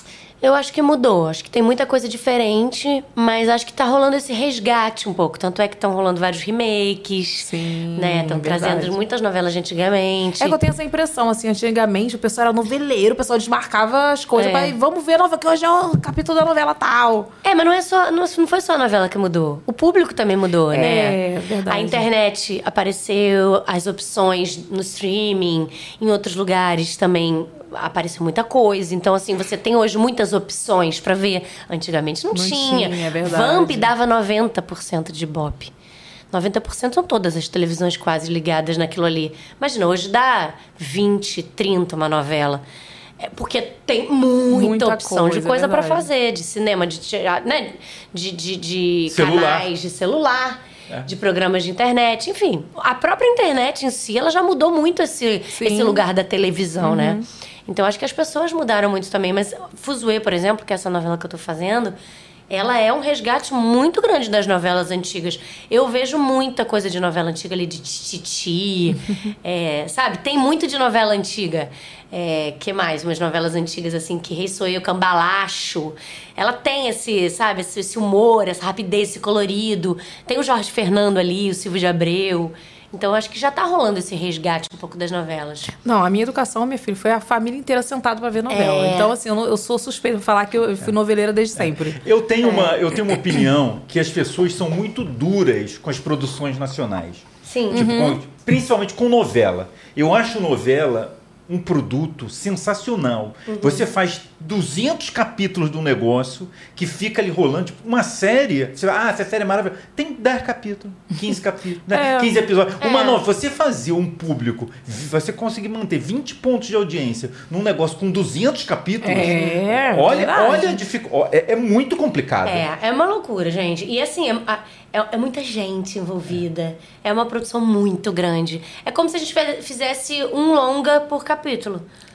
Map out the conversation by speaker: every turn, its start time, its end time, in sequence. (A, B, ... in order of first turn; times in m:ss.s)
0:00.4-0:10.6 A
0:07.4-0:08.9 B
0:10.4-0:17.3 B
0:14.4-0:14.7 A
0:17.4-0:35.7 A
0:20.7-0:22.0 B
0:32.3-0:33.9 B
0:36.3-0:42.6 A
0:43.2-1:02.0 A
0:44.5-0:46.1 B
0:49.1-0:49.7 C
0:55.5-0:56.0 B
0:56.8-0:57.2 B
1:02.5-1:25.7 A
1:25.8-1:32.0 B
1:28.5-1:29.1 A
1:31.6-2:02.6 C
1:32.4-1:32.7 A
1:37.4-1:38.1 A
1:37.7-1:38.2 B
1:43.5-1:43.9 A
1:51.9-1:52.4 B
1:52.8-1:53.2 A
1:59.0-2:00.8 B
2:02.4-2:11.9 A